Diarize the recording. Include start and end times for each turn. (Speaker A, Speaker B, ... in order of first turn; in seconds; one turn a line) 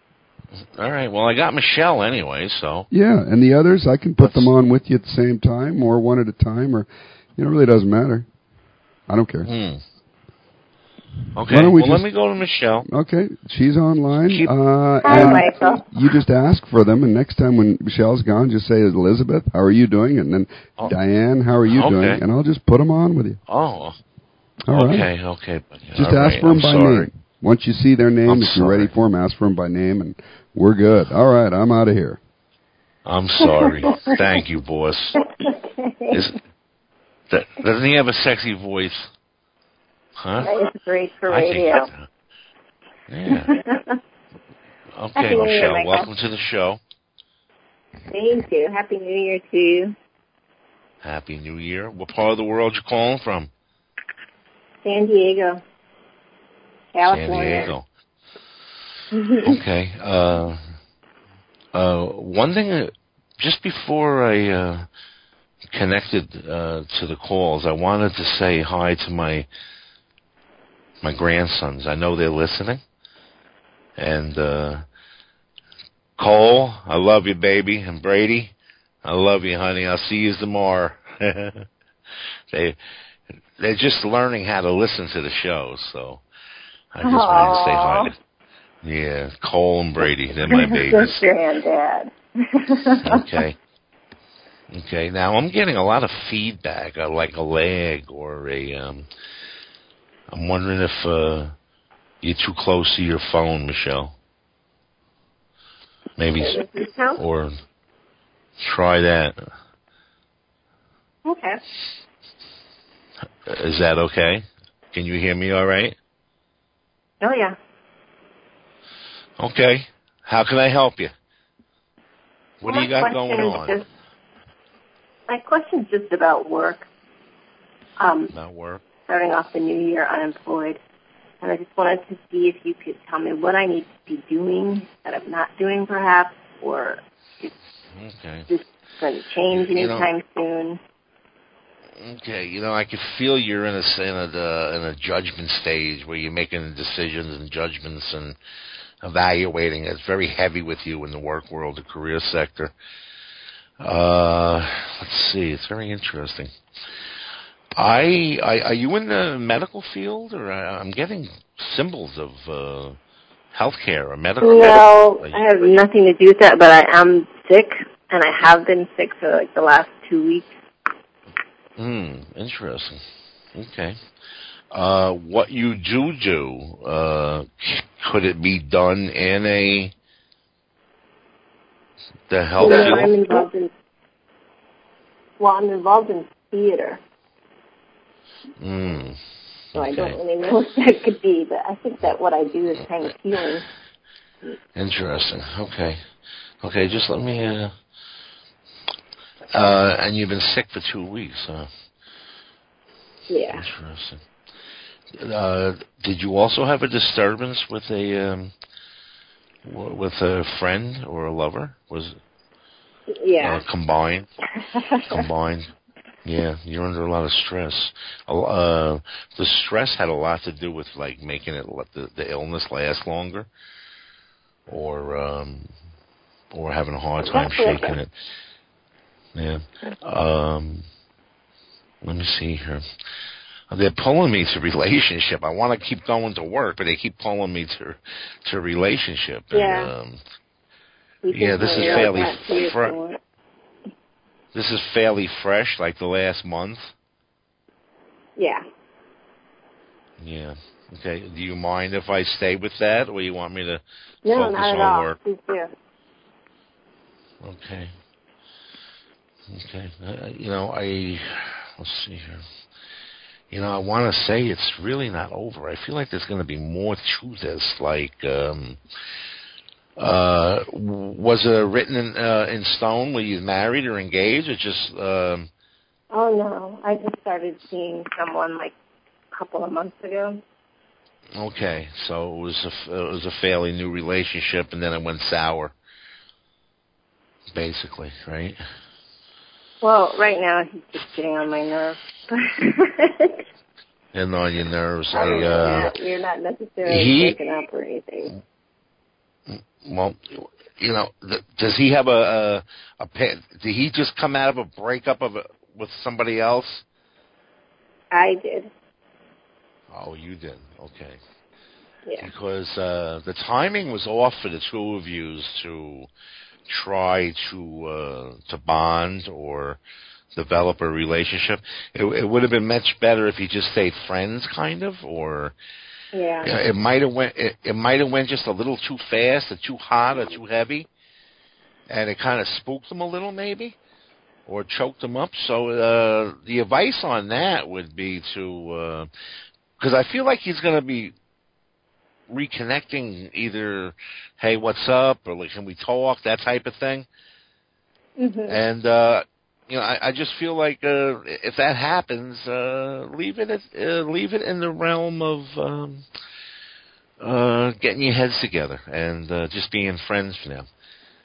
Speaker A: 0.7-2.9
Speaker B: 2.9-8.3
Speaker A: 4.2-4.5
Speaker B: 9.1-9.5
Speaker A: 9.4-9.8
Speaker A: 11.3-12.9
Speaker B: 11.5-12.1
Speaker B: 12.9-23.4
Speaker C: 15.0-15.8
Speaker A: 21.7-22.2
Speaker A: 23.5-23.9
Speaker B: 24.7-25.1
Speaker A: 24.7-27.1
Speaker B: 25.9-32.2
Speaker A: 28.2-28.9
Speaker A: 33.0-35.2
Speaker C: 35.4-36.2
Speaker A: 36.1-36.4
Speaker A: 37.3-39.1
Speaker A: 40.2-40.5
Speaker C: 40.4-41.9
Speaker A: 41.3-42.1
Speaker A: 43.1-43.6
Speaker C: 43.5-43.9
Speaker A: 44.9-46.8
Speaker C: 45.1-46.1
Speaker C: 48.1-49.9
Speaker A: 51.0-53.5
Speaker C: 54.8-55.6
Speaker C: 56.9-57.7
Speaker A: 57.1-57.9
Speaker A: 59.4-60.6
Speaker A: 61.7-64.9
Speaker A: 65.7-69.5
Speaker A: 71.0-72.8
Speaker A: 74.0-74.8
Speaker A: 76.2-81.7
Speaker A: 82.5-82.8
Speaker A: 83.6-86.2
Speaker A: 86.9-88.1
Speaker C: 87.0-88.1
Speaker A: 88.8-91.2
Speaker C: 90.5-93.2
Speaker A: 93.0-93.6
Speaker A: 94.7-99.1
Speaker A: 100.3-101.5
Speaker A: 102.2-104.1
Speaker A: 106.2-106.6
Speaker C: 106.3-107.2
Speaker A: 107.2-107.6
Speaker A: 108.6-109.3
Speaker C: 111.2-111.6
Speaker A: 113.5-116.0
Speaker C: 117.2-117.5
Speaker A: 119.4-121.1
Speaker A: 122.6-123.8
Speaker C: 122.6-123.8
Speaker C: 125.3-126.9
Speaker C: 128.0-128.3
Speaker A: 128.3-128.8
Speaker C: 129.1-130.8
Speaker C: 131.4-137.5
Speaker A: 137.9-138.5
Speaker C: 138.5-140.8
Speaker A: 139.5-140.1
Speaker A: 142.0-148.3
Speaker A: 149.0-152.7
Speaker A: 153.8-156.5
Speaker A: 157.8-163.0
Speaker A: 163.5-165.4
Speaker C: 164.4-170.5
Speaker A: 171.8-173.0
Speaker A: 173.5-174.0
Speaker A: 174.7-179.9
Speaker A: 182.3-183.4
Speaker C: 182.6-183.7
Speaker C: 185.4-187.0
Speaker A: 188.6-189.2
Speaker A: 189.7-190.2
Speaker C: 189.8-193.7
Speaker A: 194.7-196.0
Speaker A: 196.6-197.7
Speaker A: 199.5-201.7
Speaker C: 203.3-203.6
Speaker A: 203.5-204.2
Speaker A: 205.2-208.5
Speaker A: 209.6-212.2
Speaker C: 213.2-213.6
Speaker A: 213.4-214.3
Speaker A: 215.1-215.7
Speaker A: 216.2-223.5
Speaker A: 224.7-225.7
Speaker A: 226.5-228.1
Speaker C: 227.3-227.9
Speaker A: 229.3-230.8
Speaker A: 232.0-232.8
Speaker A: 233.7-240.2
Speaker C: 239.5-239.9
Speaker C: 241.2-243.2
Speaker A: 241.3-242.9
Speaker A: 244.5-246.9
Speaker C: 248.4-248.6
Speaker A: 250.2-255.2
Speaker C: 254.2-255.7
Speaker A: 257.4-257.9
Speaker A: 259.5-262.4
Speaker A: 263.5-268.8
Speaker A: 270.0-275.5
Speaker C: 276.1-278.7
Speaker C: 279.3-280.4
Speaker A: 281.4-285.7
Speaker A: 287.5-288.6
Speaker C: 289.8-293.4
Speaker A: 294.1-295.9
Speaker C: 295.1-298.3
Speaker A: 296.8-297.4
Speaker A: 299.5-306.8
Speaker C: 308.1-308.7
Speaker A: 309.9-311.2
Speaker A: 312.2-316.1
Speaker A: 316.7-319.8
Speaker A: 320.3-325.5
Speaker C: 326.1-326.5
Speaker A: 326.4-330.9
Speaker A: 331.9-333.7
Speaker A: 334.5-339.1
Speaker A: 339.8-341.1
Speaker A: 342.3-347.1
Speaker C: 348.2-348.6
Speaker A: 348.5-356.0
Speaker A: 357.2-360.7